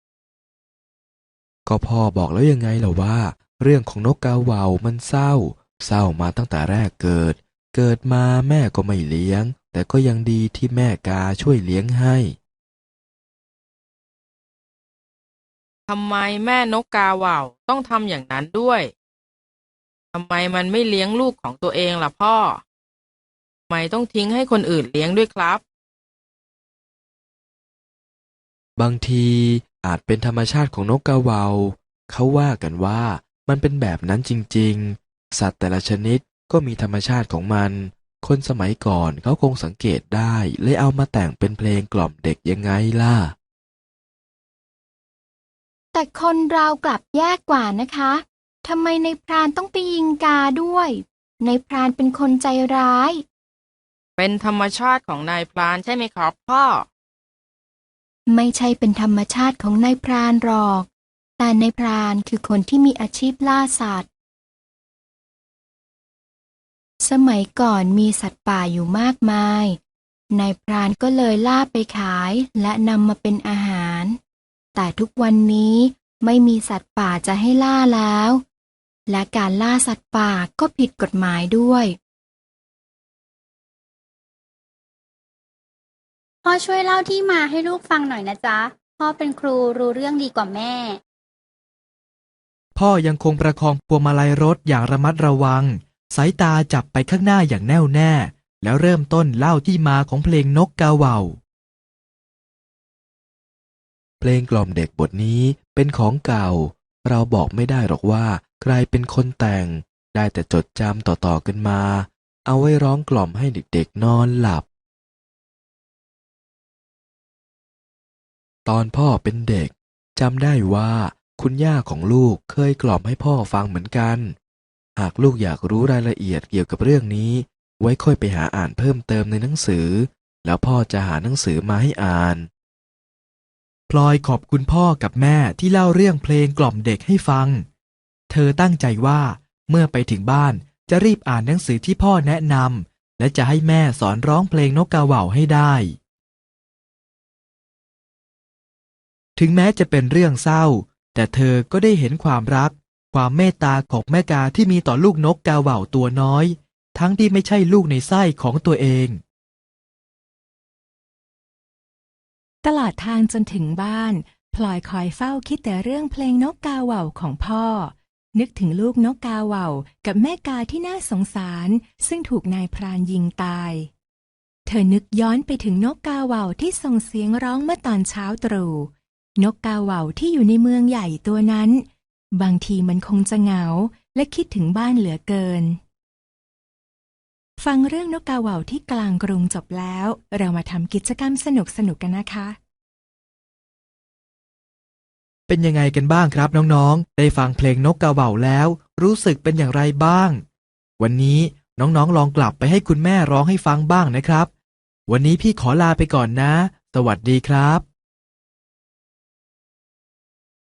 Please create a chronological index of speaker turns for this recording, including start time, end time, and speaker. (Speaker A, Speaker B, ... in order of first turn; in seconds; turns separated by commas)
Speaker A: 1.6-12.4, Speaker B: 15.9-18.9, Speaker B: 20.1-22.6, Speaker B: 23.7-25.6, Speaker A: 28.8-43.4, Speaker C: 45.9-53.2, Speaker B: 54.2-56.9, Speaker C: 58.3-64.1, Speaker C: 67.0-69.8, Speaker C: 70.3-74.2, Speaker C: 74.7-78.4, Speaker C: 79.1-82.0, Speaker D: 86.4-91.0, Speaker E: 92.7-101.4, Speaker A: 104.2-114.6, Speaker A: 118.7-124.3, Speaker A: 125.0-132.5, Speaker E: 133.9-137.7, Speaker E: 138.3-146.0, Speaker E: 149.4-159.2, Speaker F: 162.6-173.9, Speaker F: 174.7-185.8, Speaker F: 187.6-192.6, Speaker E: 195.5-200.4, Speaker E: 201.0-204.5, Speaker E: 205.1-207.8